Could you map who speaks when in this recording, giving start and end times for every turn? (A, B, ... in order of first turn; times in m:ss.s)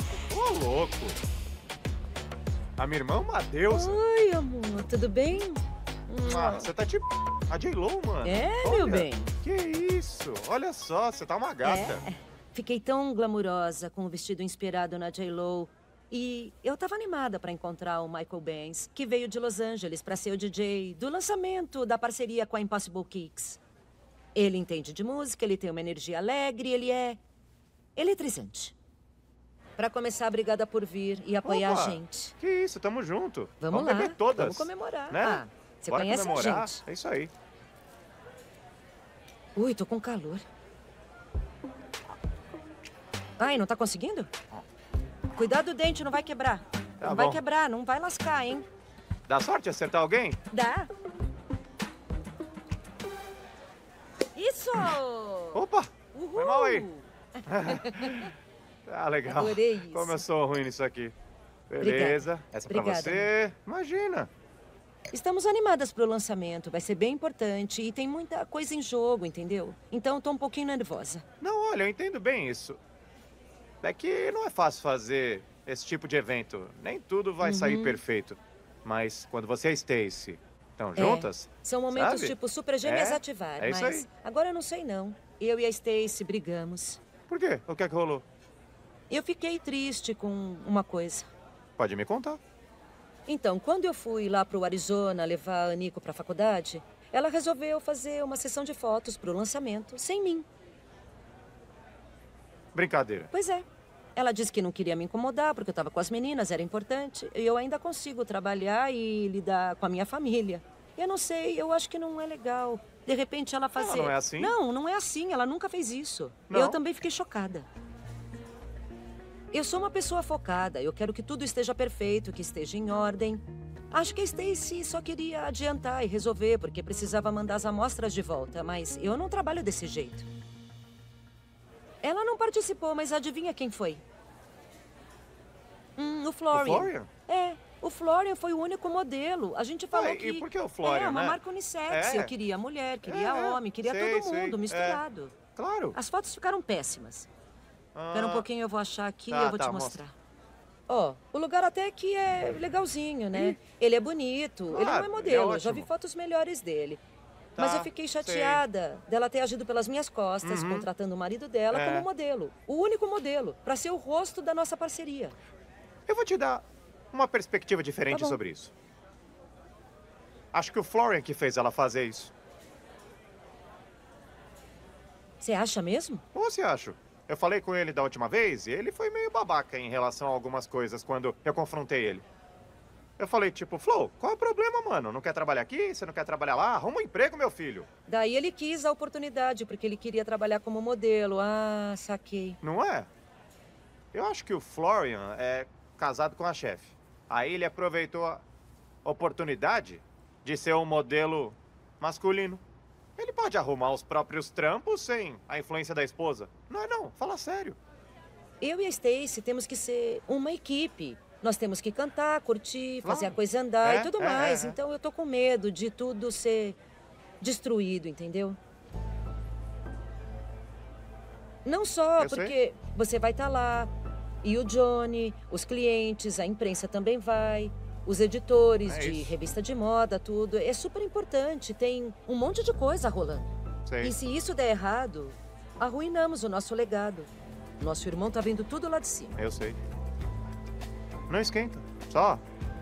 0:00.3-0:01.2 A
0:02.8-0:04.0 A
0:03.7-0:06.7 B
0:06.2-0:12.0 A
0:08.2-0:09.3 B
0:11.6-0:23.6 B
0:24.4-0:27.2 B
0:28.0-0:28.8 B
0:29.8-0:32.3 B
0:31.4-0:37.3 A
0:33.6-0:36.8 B
0:39.6-0:40.4 B
0:43.4-0:44.3 B
0:45.3-0:48.7 B
0:47.0-0:47.4 A
0:49.3-0:50.4 A
0:50.5-0:50.9 B
0:54.3-0:58.3 B
0:55.5-0:56.9 A
0:57.5-0:58.3 A
0:58.9-1:01.1 A
0:59.3-1:00.2 B
1:01.7-1:04.3 A
1:01.8-1:03.3 B
1:05.1-1:11.2 B
1:11.4-1:12.8 A
1:13.8-1:24.1 A
1:17.4-1:18.0 B
1:21.0-1:27.0 B
1:27.3-1:28.2 A
1:29.1-1:31.3 B
1:31.8-1:32.4 A
1:33.3-1:40.5 B
1:42.7-1:43.3 A
1:43.3-1:57.7 B
1:53.8-1:54.6 A
1:56.5-1:56.8 A
1:59.5-2:10.3 B
2:12.0-2:14.0 B
2:16.0-2:25.4 B
2:16.5-2:17.1 A
2:19.9-2:22.3 A
2:23.0-2:25.0 A
2:25.6-2:26.0 A
2:26.0-2:27.3 B
2:28.0-2:28.5 A
2:28.1-2:30.2 B
2:29.3-2:30.0 A
2:30.9-2:37.0 B
2:33.3-2:33.6 A
2:34.7-2:35.9 A
2:37.6-2:38.6 A
2:37.6-2:45.4 B
2:40.4-2:40.9 A
2:41.7-2:42.1 A
2:46.1-2:48.7 A
2:48.1-2:48.4 B
2:50.5-2:52.3 A
2:55.4-2:56.2 B
2:56.3-3:02.2 A
3:03.2-3:07.9 A
3:08.1-3:12.6 B
3:12.6-3:13.1 A
3:14.1-3:18.4 A
3:19.0-3:22.6 A
3:23.2-3:27.8 A
3:28.6-3:36.8 B
3:33.0-3:34.8 A
3:37.4-3:38.6 B
3:41.6-3:43.9 B
3:42.2-3:42.6 A
3:44.4-3:59.4 B
3:48.8-3:49.4 A
3:53.9-3:54.2 A
3:59.4-3:59.8 A
4:01.3-4:02.4 A